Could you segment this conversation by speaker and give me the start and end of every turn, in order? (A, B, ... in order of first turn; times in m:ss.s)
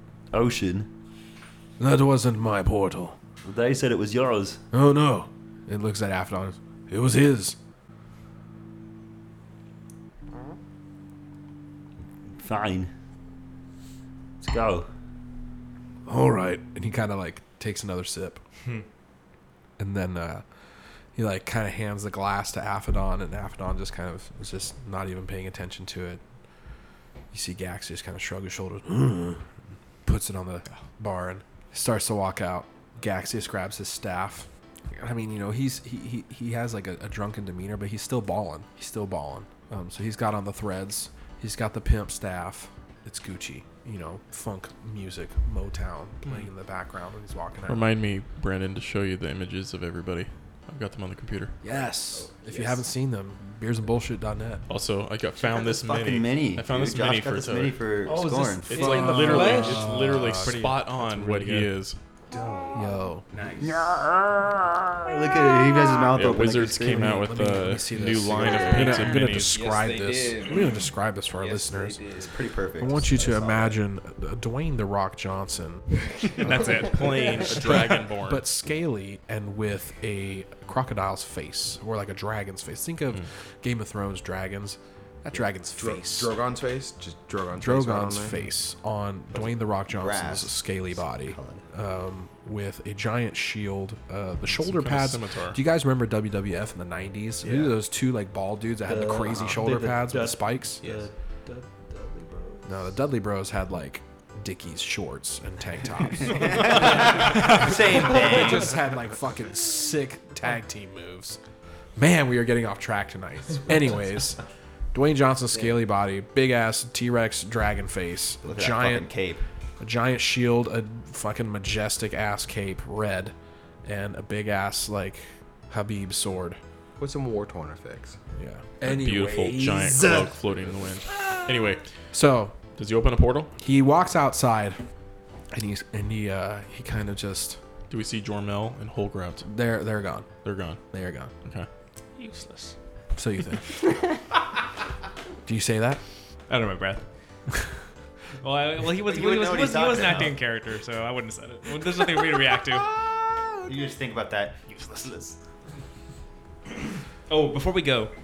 0:00.3-0:00.9 A
0:01.8-0:03.2 B
0:03.4-0:04.6 A
0:04.7-0:07.6 B
0:12.4-0:12.9 A
0:14.4-0:14.9 A
0:16.1-0:18.4 B
0:19.8-0:20.4 B
0:21.2-0:26.2 B
0:27.3-0:29.5 B
0:30.0-0:47.9 B
0:47.6-0:51.6 C
0:51.6-0:54.6 B
0:52.2-0:52.6 D
0:54.7-0:57.8 C
0:55.4-0:58.9 E
0:58.0-0:59.9 F
0:58.7-1:02.0 C
0:58.8-1:00.7 B
1:00.4-1:01.7 G
1:02.4-1:02.7 D
1:02.7-1:03.3 B
1:03.3-1:03.7 D
1:03.4-1:03.9 E
1:03.6-1:05.9 A
1:05.1-1:07.2 E
1:06.1-1:09.6 C
1:06.9-1:12.1 B
1:09.6-1:10.6 D
1:11.4-1:12.2 D
1:12.2-1:13.5 E
1:12.8-1:15.9 B
1:16.4-1:17.8 G
1:16.4-1:18.4 C
1:17.6-1:26.4 B
1:25.3-1:28.4 D
1:27.6-1:40.8 B
1:29.9-1:31.6 E
1:34.5-1:35.6 C
1:37.4-1:37.8 F
1:38.8-1:42.9 F
1:42.6-1:51.4 B
1:46.2-1:48.8 E
1:47.3-1:47.6 G
1:52.0-1:54.4 B
1:54.9-1:59.1 B
1:58.4-1:59.4 E
1:59.8-2:06.6 B
2:07.0-2:08.2 D
2:08.3-2:10.4 B
2:08.8-2:11.9 C
2:12.1-2:12.6 B
2:12.8-2:13.5 C
2:13.6-2:14.8 B
2:15.5-2:17.6 B
2:17.9-2:19.5 C
2:19.4-2:20.3 B
2:20.4-2:20.8 C
2:20.9-2:21.3 B
2:22.2-2:22.7 G
2:23.1-2:23.8 B
2:25.4-2:26.0 B
2:26.5-2:27.0 G
2:28.4-2:32.9 G
2:29.0-2:30.4 E
2:33.7-2:35.4 E
2:34.7-2:35.1 G
2:37.3-2:38.1 G